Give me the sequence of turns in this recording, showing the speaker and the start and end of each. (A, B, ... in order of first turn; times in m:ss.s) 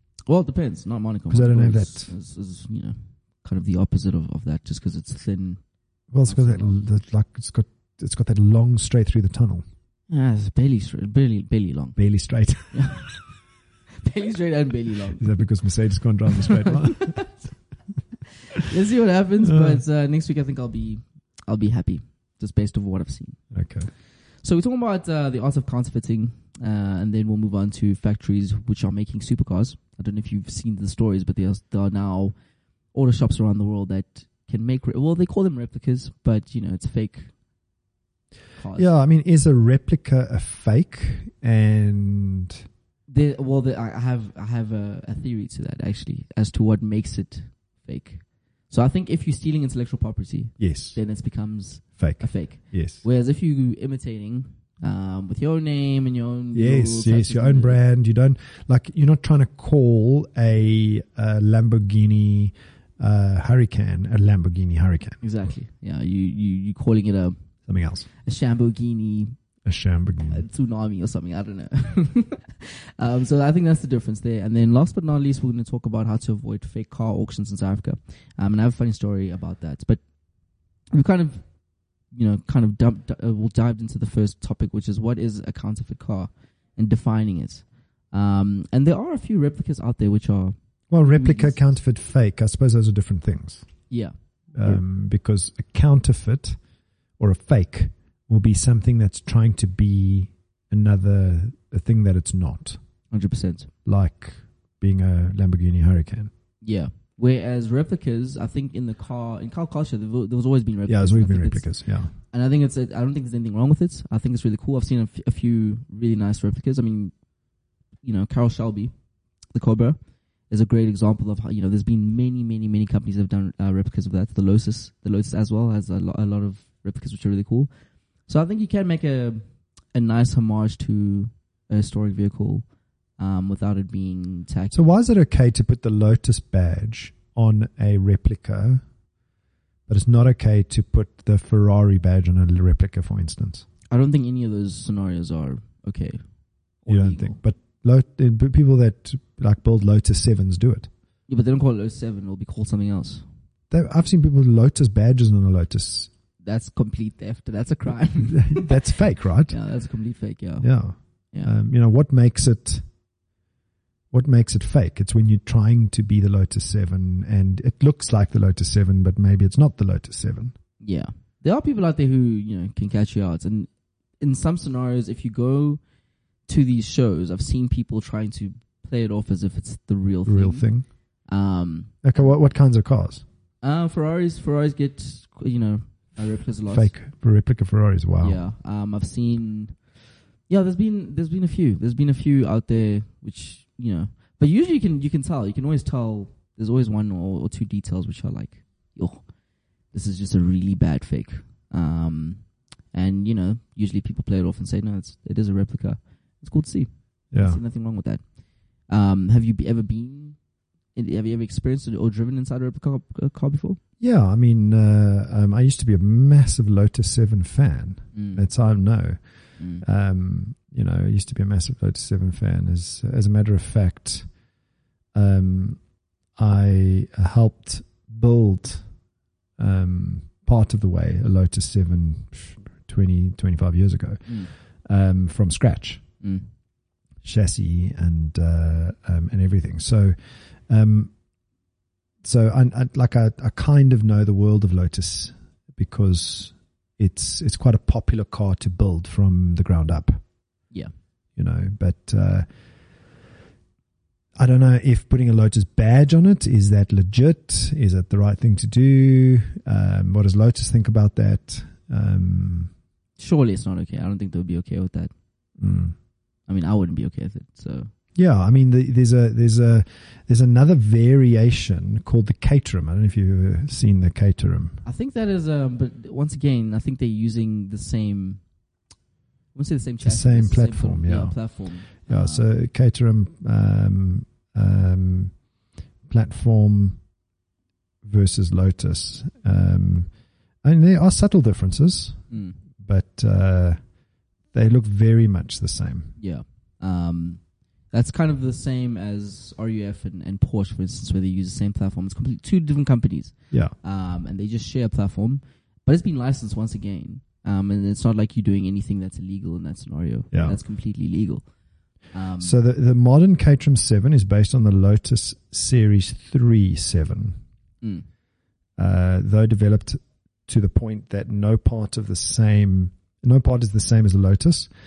0:00.3-0:05.6 A
0:01.3-0:02.1 B
0:06.1-0:09.6 B
0:06.2-0:06.8 A
0:10.1-0:12.0 A
0:12.0-0:13.0 B
0:12.7-0:13.2 A
0:14.0-0:15.4 A
0:15.2-0:17.2 B
0:16.3-0:17.4 A
0:18.5-0:23.4 A
0:19.4-0:19.8 B
0:23.5-0:23.9 B
0:24.4-0:32.3 A
0:32.9-0:37.3 A
0:38.6-0:38.9 A
0:38.8-0:42.6 B
0:43.1-0:57.8 A
0:50.6-0:51.0 B
0:52.0-0:53.0 B
0:56.5-1:05.2 B
1:05.2-1:07.4 A
1:07.7-1:08.1 B
1:08.2-1:09.3 A
1:09.6-1:10.4 B
1:10.3-1:20.0 A
1:20.9-1:21.4 A
1:22.1-1:31.6 A
1:30.9-1:33.7 B
1:34.6-1:36.6 B
1:37.2-1:42.8 B
1:43.1-1:43.7 A
1:43.8-1:46.3 B
1:46.6-1:57.1 A
1:50.9-1:52.1 B
1:58.0-1:58.9 A
1:59.5-2:00.0 A
2:00.5-2:07.7 A
2:08.3-2:09.4 A
2:09.9-2:12.6 A
2:13.2-2:14.8 A
2:14.7-2:18.8 B
2:19.9-2:23.7 B
2:23.9-2:26.2 A
2:26.8-2:27.4 A
2:26.9-2:30.9 B
2:31.3-2:33.2 A
2:33.7-2:36.1 B
2:36.4-2:38.9 A
2:38.2-2:39.6 B
2:39.5-2:40.7 A
2:40.6-2:42.8 B
2:44.1-2:50.5 B
2:50.8-2:53.7 A
2:54.2-2:55.8 A
2:56.5-3:00.6 A
3:00.2-3:00.9 B
3:01.2-3:02.0 A
3:02.0-3:03.2 B
3:03.6-3:06.9 A
3:06.7-3:08.4 B
3:08.2-3:09.7 A
3:10.5-3:19.2 A
3:19.9-3:22.4 A
3:22.9-3:28.2 A
3:27.3-3:27.6 B
3:28.9-3:30.4 A
3:30.9-3:33.8 A
3:34.0-3:39.2 B
3:38.1-3:38.4 A
3:39.6-3:39.8 A
3:39.8-3:44.3 B
3:45.1-3:45.8 B
3:46.4-3:48.8 B
3:49.6-3:56.0 B
3:56.2-3:56.5 A
3:57.2-4:00.1 B
4:00.7-4:01.1 B
4:02.2-4:10.2 B
4:11.4-4:12.4 B
4:14.4-4:22.7 B
4:23.2-4:25.1 A
4:25.6-4:25.9 B
4:26.5-4:27.9 A
4:28.2-4:34.8 B
4:34.8-4:38.4 A
4:39.5-4:42.5 A
4:40.0-4:41.4 B
4:42.0-4:45.3 B
4:46.1-4:47.0 B
4:48.0-4:50.1 B
4:50.6-4:52.2 B
4:52.3-4:52.6 A
4:52.8-4:53.8 B
4:54.5-4:56.1 B
4:56.2-4:57.4 A
4:57.9-5:11.4 A
5:12.1-5:12.6 A
5:12.4-5:17.4 B
5:18.8-5:24.7 B